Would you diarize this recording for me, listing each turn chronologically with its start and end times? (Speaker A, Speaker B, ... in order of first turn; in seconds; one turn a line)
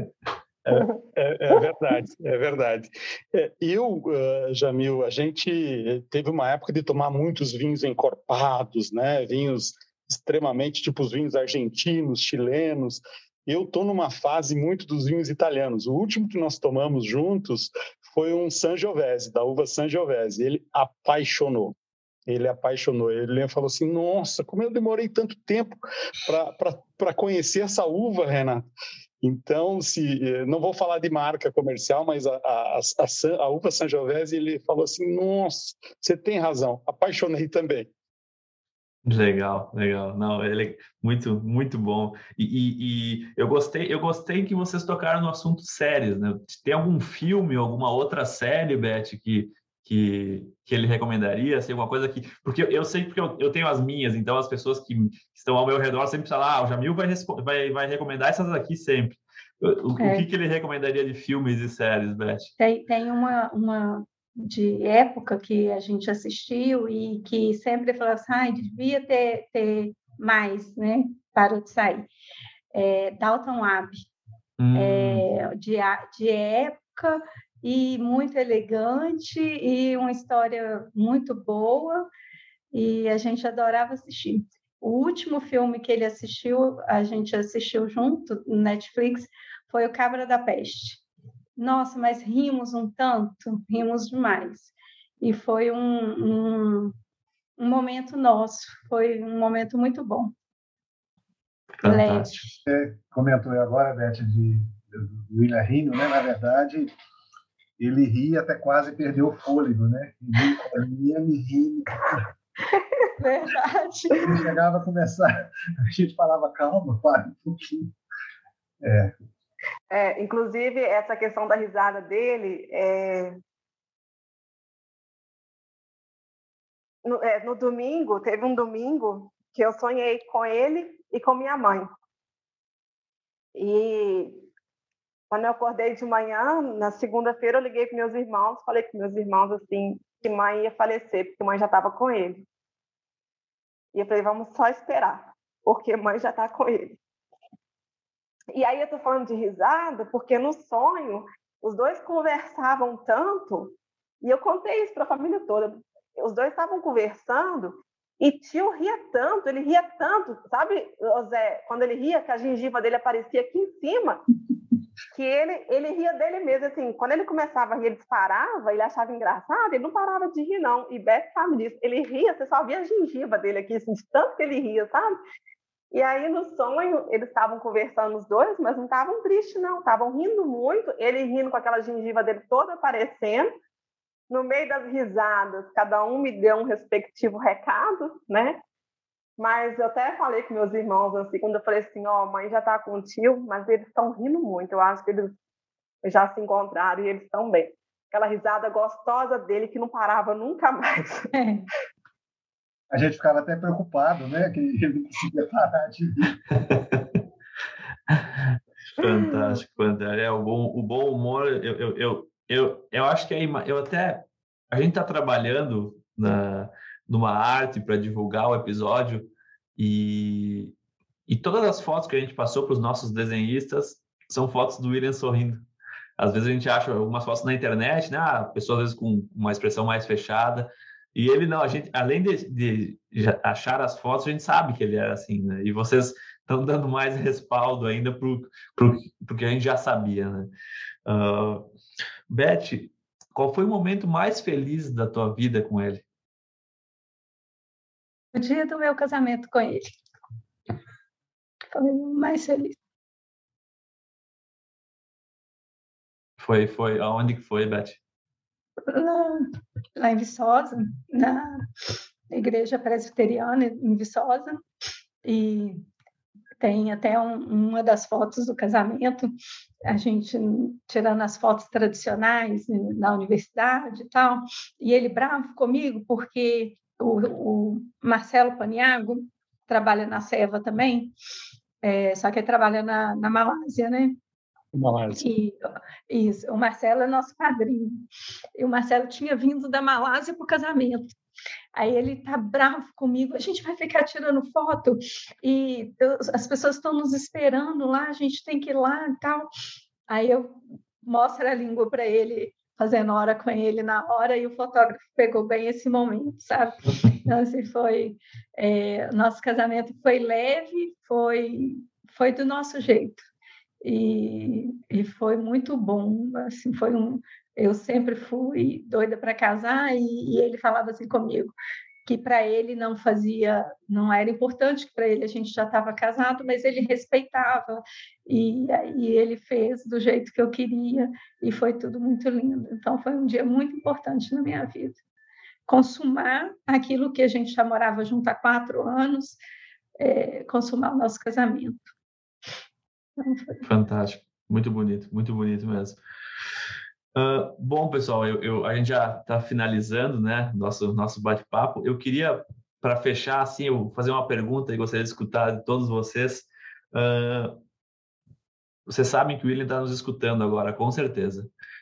Speaker A: 0.7-21.8
Speaker A: 22.3-28.7
Speaker A: 29.2-37.9
Speaker B: 39.0-62.5
Speaker C: 60.0-60.3
Speaker C: 62.6-72.1
Speaker C: 72.7-74.1
Speaker B: 74.6-75.3
Speaker C: 74.8-82.1
Speaker C: 82.7-91.0
Speaker C: 91.6-97.0
Speaker C: 97.6-100.3
Speaker B: 101.8-102.5
Speaker C: 101.8-102.5
Speaker D: 102.7-106.9
Speaker D: 107.8-112.2
Speaker E: 112.7-113.1
Speaker C: 113.2-114.4
Speaker D: 114.2-117.9
Speaker D: 118.8-119.1
Speaker E: 119.9-123.4
Speaker E: 127.0-131.9
Speaker E: 133.6-134.5
Speaker E: 135.3-142.4
Speaker E: 143.9-147.0
Speaker E: 148.5-164.2
Speaker E: 165.1-175.2
Speaker E: 175.9-183.5
Speaker E: 184.3-188.6
Speaker E: 189.4-195.4
Speaker E: 196.0-201.3
Speaker C: 201.3-201.7
Speaker D: 202.9-206.4
Speaker B: 206.7-207.1
Speaker B: 208.1-220.7
Speaker B: 221.3-225.7
Speaker B: 226.2-240.5
Speaker B: 241.1-241.7
Speaker B: 242.3-246.0
Speaker C: 248.3-250.0
Speaker C: 251.7-252.8
Speaker B: 256.4-258.0
Speaker C: 258.9-261.6
Speaker C: 262.3-264.6
Speaker C: 265.2-265.8
Speaker C: 266.6-269.3
Speaker C: 269.9-281.1
Speaker C: 281.8-284.2
Speaker A: 284.7-285.3
Speaker C: 285.1-285.6
Speaker C: 286.1-288.1
Speaker C: 288.6-291.1
Speaker C: 291.8-299.5
Speaker C: 300.1-313.2
Speaker C: 313.8-321.5
Speaker C: 322.1-335.0
Speaker C: 335.7-339.4
Speaker C: 340.0-341.8
Speaker C: 343.2-343.6
Speaker B: 343.6-346.0
Speaker B: 347.1-357.6
Speaker B: 358.9-361.5